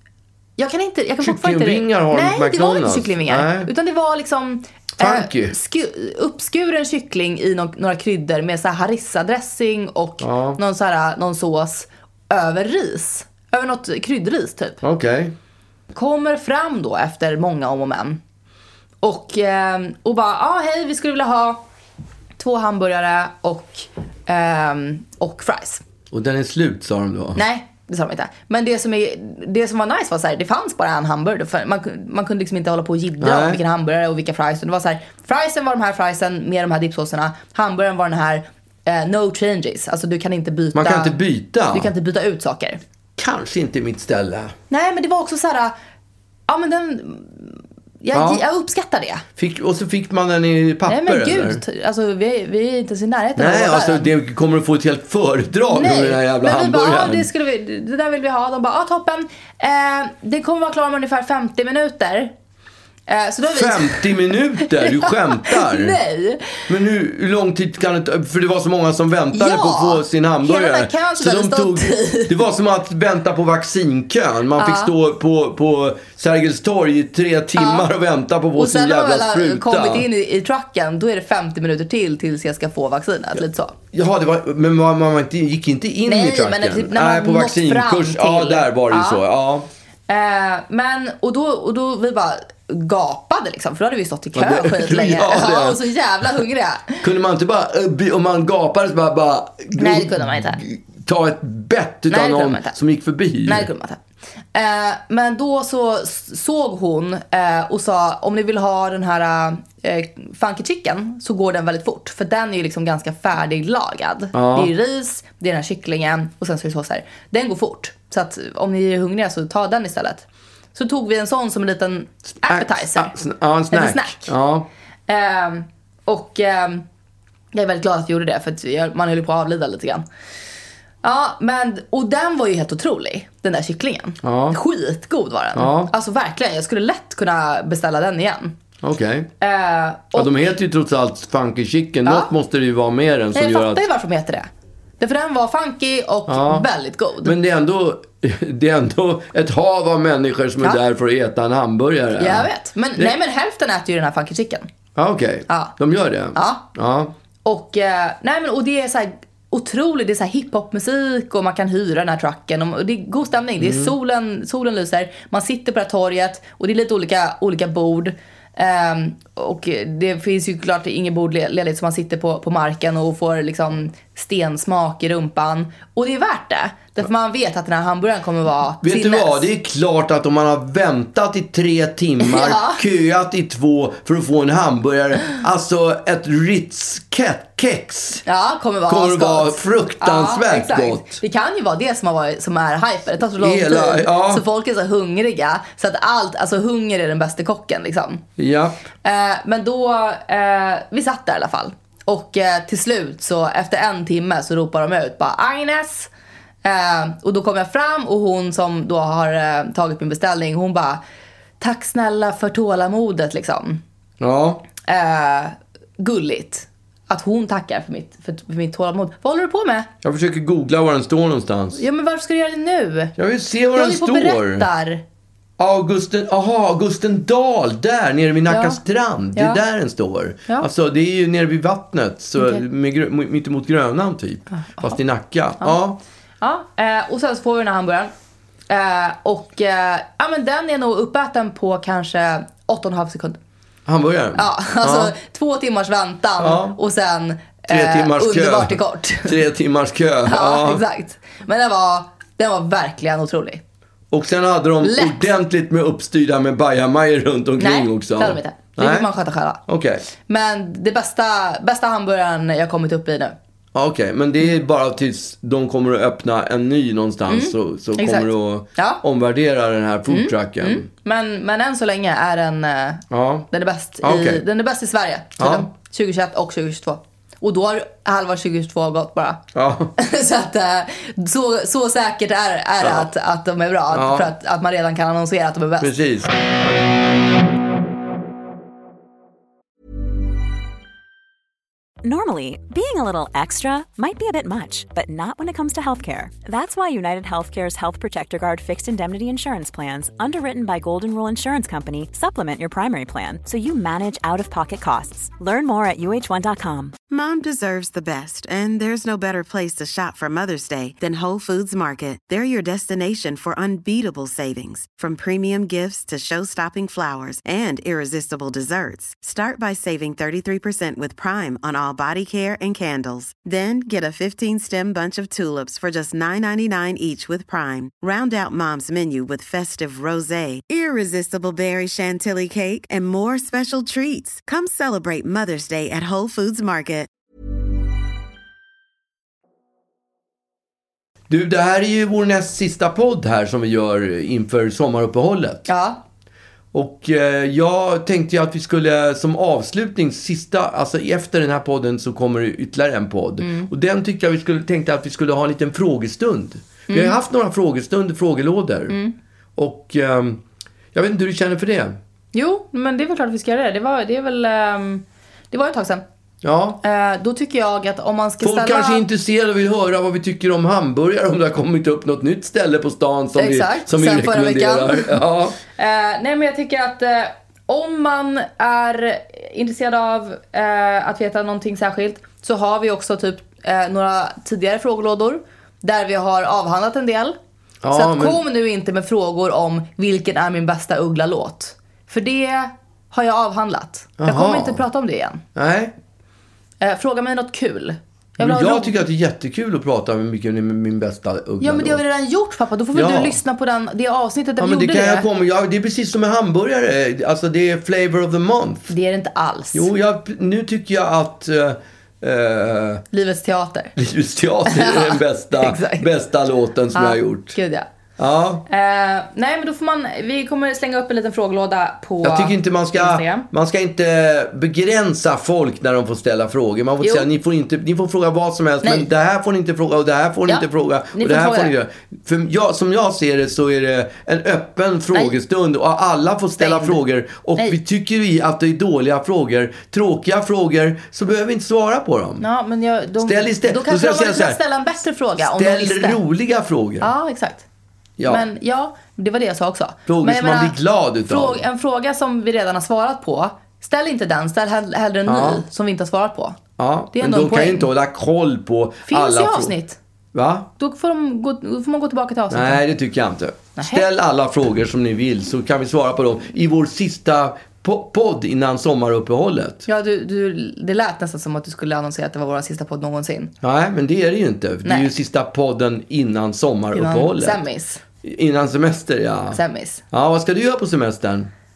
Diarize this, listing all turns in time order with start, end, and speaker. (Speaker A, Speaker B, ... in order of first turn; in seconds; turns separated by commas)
Speaker A: 0.6-14.8, Speaker B: 1.2-3.7, Speaker B: 5.0-5.5, Speaker B: 10.2-10.6, Speaker B: 14.8-15.3, Speaker A: 15.9-18.2, Speaker A: 19.0-21.6, Speaker A: 22.4-25.8, Speaker B: 26.1-27.4, Speaker A: 27.4-41.1, Speaker B: 33.2-33.6, Speaker B: 40.7-41.9, Speaker A: 41.7-42.8, Speaker B: 43.2-44.5, Speaker A: 44.7-45.7, Speaker A: 46.5-49.2, Speaker B: 48.1-48.4, Speaker B: 49.4-51.6, Speaker A: 50.9-54.1, Speaker B: 53.4-57.3, Speaker A: 55.7-62.3, Speaker A: 63.1-66.7, Speaker B: 63.5-66.0, Speaker B: 66.7-80.0, Speaker A: 69.3-72.3, Speaker A: 74.6-74.9, Speaker A: 77.5-77.9, Speaker A: 78.5-83.7, Speaker B: 83.9-89.7, Speaker A: 86.0-89.2, Speaker A: 90.1-97.0, Speaker B: 94.3-95.8, Speaker B: 97.0-103.7, Speaker A: 99.8-100.6, Speaker A: 102.1-102.8, Speaker A: 103.4-104.0, Speaker A: 104.5-123.1, Speaker B: 114.3-114.7, Speaker B: 122.4-124.7, Speaker A: 123.7-124.3, Speaker A: 125.1-126.8, Speaker A: 127.5-130.0, Speaker A: 131.0-138.5, Speaker B: 134.2-134.6, Speaker B: 135.6-135.9, Speaker B: 138.8-139.3, Speaker A: 139.4-140.5, Speaker B: 140.1-143.8, Speaker A: 142.0-142.3, Speaker A: 143.3-144.5, Speaker A: 145.0-147.3, Speaker B: 146.3-146.7, Speaker B: 147.2-153.1, Speaker A: 152.2-154.7, Speaker B: 154.9-157.1, Speaker A: 155.5-155.7, Speaker A: 156.3-156.7, Speaker A: 157.4-179.4, Speaker B: 163.6-163.9, Speaker B: 178.8-188.2, Speaker A: 182.2-182.8, Speaker A: 188.2-198.2, Speaker B: 188.9-191.2, Speaker B: 193.4-194.4, Speaker B: 198.4-198.8, Speaker A: 199.0-206.1, Speaker A: 206.6-211.0, Speaker A: 211.6-213.8, Speaker B: 214.2-214.6, Speaker A: 214.8-219.9, Speaker B: 220.0-221.8, Speaker A: 221.7-223.1, Speaker B: 223.2-224.7, Speaker A: 223.7-225.0, Speaker B: 225.6-236.0, Speaker A: 228.5-228.8, Speaker A: 229.3-229.6, Speaker A: 232.3-232.6, Speaker A: 234.5-235.0, Speaker A: 236.4-238.1, Speaker A: 238.7-243.4, Speaker B: 243.8-245.1, Speaker A: 244.3-249.4, Speaker B: 246.4-246.8, Speaker B: 247.7-250.8, Speaker A: 250.2-253.6, Speaker B: 254.1-259.1, Speaker A: 254.8-255.2, Speaker A: 257.6-263.4, Speaker B: 259.6-260.0, Speaker B: 263.7-270.9, Speaker A: 267.3-269.0, Speaker A: 270.1-279.4, Speaker B: 273.1-273.5, Speaker B: 274.0-274.4, Speaker B: 275.4-275.7, Speaker B: 279.5-279.9, Speaker A: 280.0-285.9, Speaker B: 282.8-283.1, Speaker B: 283.9-284.3, Speaker B: 285.8-286.3, Speaker C: 292.0-306.9, Speaker D: 307.1-337.1, Speaker B: 341.3-345.6, Speaker A: 345.7-346.0, Speaker B: 346.7-358.9, Speaker A: 353.4-353.7, Speaker A: 356.9-357.2, Speaker B: 359.6-360.4, Speaker B: 360.9-362.0, Speaker A: 362.3-366.0, Speaker B: 366.4-366.8, Speaker A: 366.8-369.0, Speaker B: 368.4-375.6, Speaker A: 373.4-387.4, Speaker B: 387.8-388.4, Speaker A: 387.9-395.4, Speaker B: 394.2-394.8, Speaker B: 395.5-395.9, Speaker A: 396.8-398.9, Speaker B: 398.4-402.0, Speaker A: 401.6-405.2, Speaker B: 402.9-403.4, Speaker B: 404.6-408.9, Speaker A: 408.9-409.9, Speaker B: 409.7-413.0, Speaker A: 413.1-413.9, Speaker B: 413.9-417.6, Speaker A: 414.7-416.1, Speaker A: 416.9-417.9, Speaker B: 418.2-418.6, Speaker A: 418.7-423.5, Speaker B: 422.2-442.4, Speaker A: 427.0-427.3, Speaker A: 428.8-429.1, Speaker A: 430.5-431.7, Speaker A: 436.6-437.0, Speaker A: 442.4-446.2, Speaker B: 443.2-444.6, Speaker B: 445.4-447.1, Speaker A: 447.0-447.6, Speaker B: 448.2-448.4, Speaker A: 448.2-456.6, Speaker B: 450.1-451.6, Speaker B: 455.2-455.6, Speaker B: 456.8-459.7, Speaker A: 457.1-457.9, Speaker A: 459.1-460.0, Speaker B: 460.3-460.7, Speaker A: 460.8-462.8, Speaker B: 462.5-469.8, Speaker A: 463.8-464.0, Speaker A: 469.9-473.5, Speaker B: 473.6-477.6, Speaker A: 474.8-475.1, Speaker A: 476.9-478.0, Speaker B: 478.2-479.6, Speaker A: 479.5-480.0, Speaker B: 480.1-481.5